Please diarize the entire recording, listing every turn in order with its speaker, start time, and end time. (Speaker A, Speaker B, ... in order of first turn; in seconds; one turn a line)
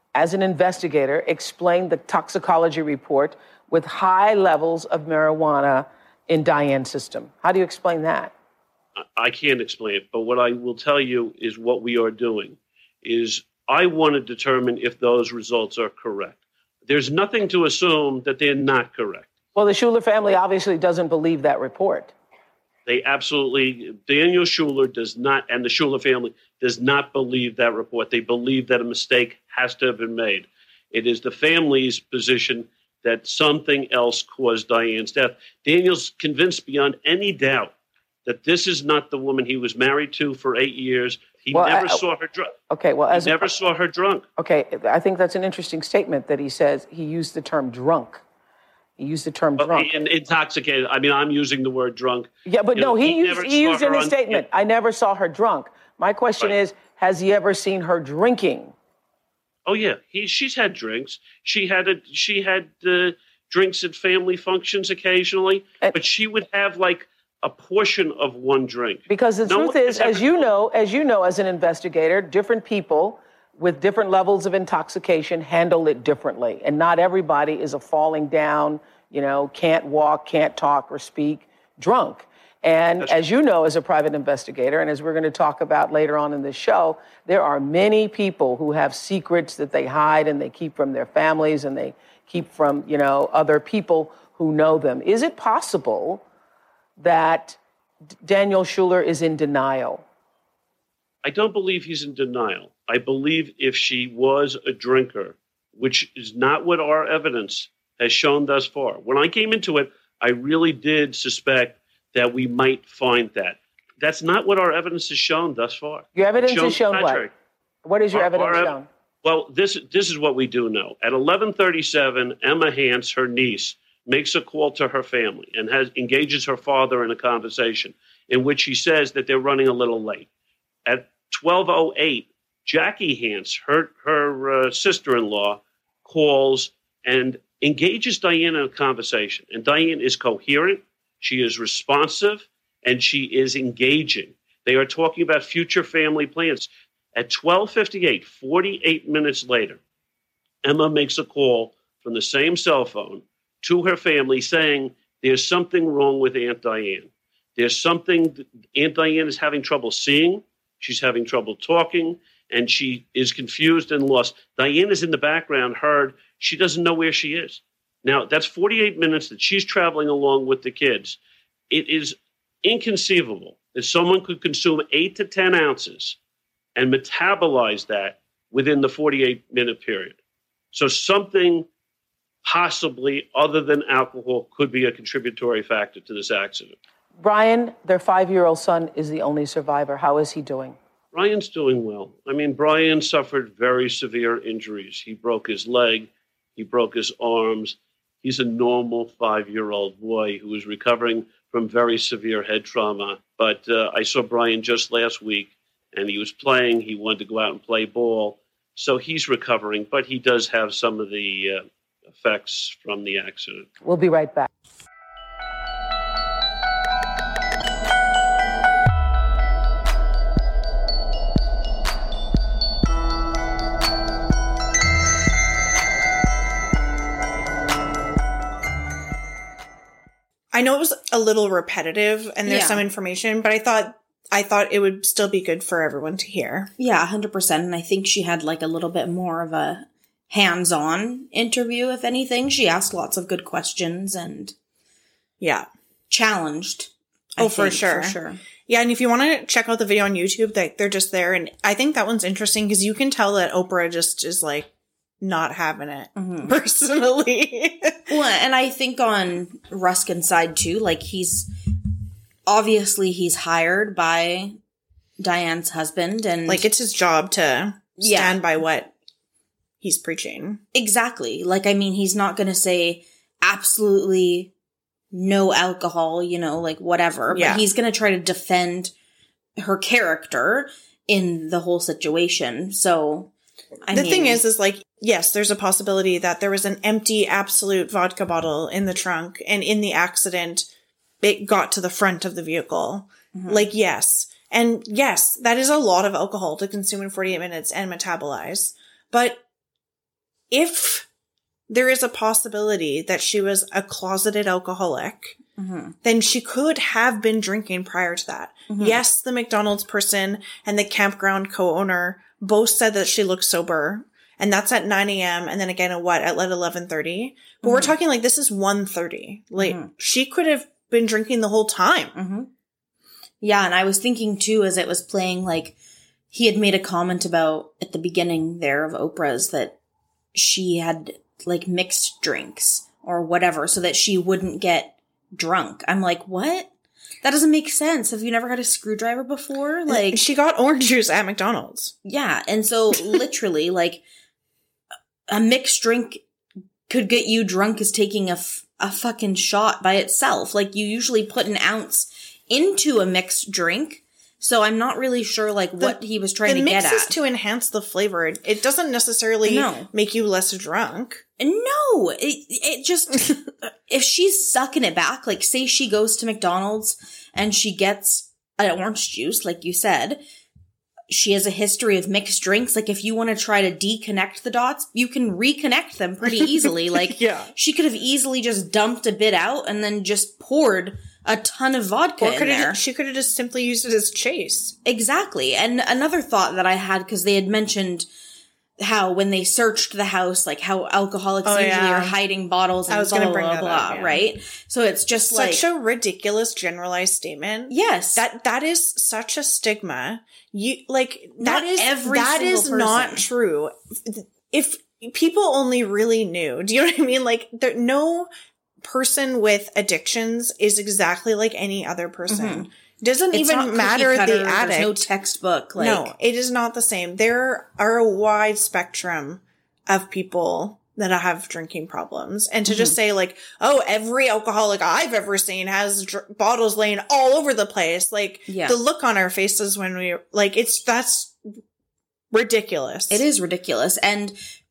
Speaker A: 0.1-8.3
Speaker B: 9.0-19.3
Speaker A: 19.6-22.1
Speaker B: 22.9-37.7
Speaker B: 38.3-42.5
Speaker A: 41.5-42.0
Speaker A: 42.7-43.5
Speaker B: 43.1-44.2
Speaker A: 44.4-48.2
Speaker A: 49.0-49.9
Speaker B: 49.6-54.4
Speaker A: 52.5-58.7
Speaker B: 59.6-70.4
Speaker A: 69.1-96.2
Speaker A: 97.0-97.6
Speaker A: 98.2-100.0
Speaker B: 101.2-117.3
Speaker A: 116.2-117.3
Speaker A: 117.8-118.9
Speaker B: 118.1-130.3
Speaker B: 130.8-149.8
Speaker B: 150.6-171.2
Speaker B: 171.7-176.2
Speaker B: 176.8-180.2
Speaker B: 180.7-181.7
Speaker B: 182.4-186.8
Speaker A: 187.2-190.8
Speaker B: 191.1-213.7
Speaker A: 213.8-214.5
Speaker C: 230.5-236.7
Speaker D: 232.5-232.8
Speaker D: 236.8-244.5
Speaker C: 245.4-245.7
Speaker D: 246.1-248.4
Speaker C: 247.4-248.2
Speaker C: 248.7-254.7
Speaker C: 255.2-258.1
Speaker D: 256.1-256.5
Speaker D: 258.1-261.5
Speaker D: 262.5-264.6
Speaker D: 265.2-266.6
Speaker C: 266.5-268.9
Speaker D: 268.0-268.4
Speaker C: 269.8-270.6
Speaker D: 270.7-274.5
Speaker D: 275.1-278.9
Speaker C: 277.3-277.6
Speaker D: 279.6-283.3
Speaker D: 283.9-284.4
Speaker C: 283.9-290.6
Speaker C: 291.2-299.4
Speaker D: 293.3-293.7
Speaker C: 300.5-301.1
Speaker C: 301.7-305.4
Speaker D: 305.6-305.9
Speaker C: 306.0-322.1
Speaker D: 308.7-309.0
Speaker D: 317.6-317.9
Speaker D: 319.6-319.9
Speaker D: 322.1-322.5
Speaker D: 323.4-325.8
Speaker D: 326.3-329.8
Speaker D: 330.3-336.7
Speaker D: 337.2-340.2
Speaker C: 339.9-341.9
Speaker D: 342.1-344.0
Speaker D: 345.3-346.2
Speaker D: 346.9-357.2
Speaker C: 355.8-361.2
Speaker D: 359.5-359.9
Speaker D: 361.4-363.4
Speaker D: 363.9-370.2
Speaker D: 371.1-382.8
Speaker C: 376.2-377.5
Speaker C: 382.2-384.8
Speaker D: 384.9-388.1
Speaker D: 388.8-395.6
Speaker C: 391.4-392.2
Speaker C: 392.9-394.2
Speaker C: 395.2-408.3
Speaker D: 397.7-398.2
Speaker D: 401.4-403.2
Speaker C: 408.8-415.1
Speaker D: 412.3-412.7
Speaker D: 413.3-416.1
Speaker C: 415.8-431.4
Speaker D: 422.7-422.9
Speaker D: 428.5-428.8
Speaker C: 432.3-433.2
Speaker D: 433.1-434.4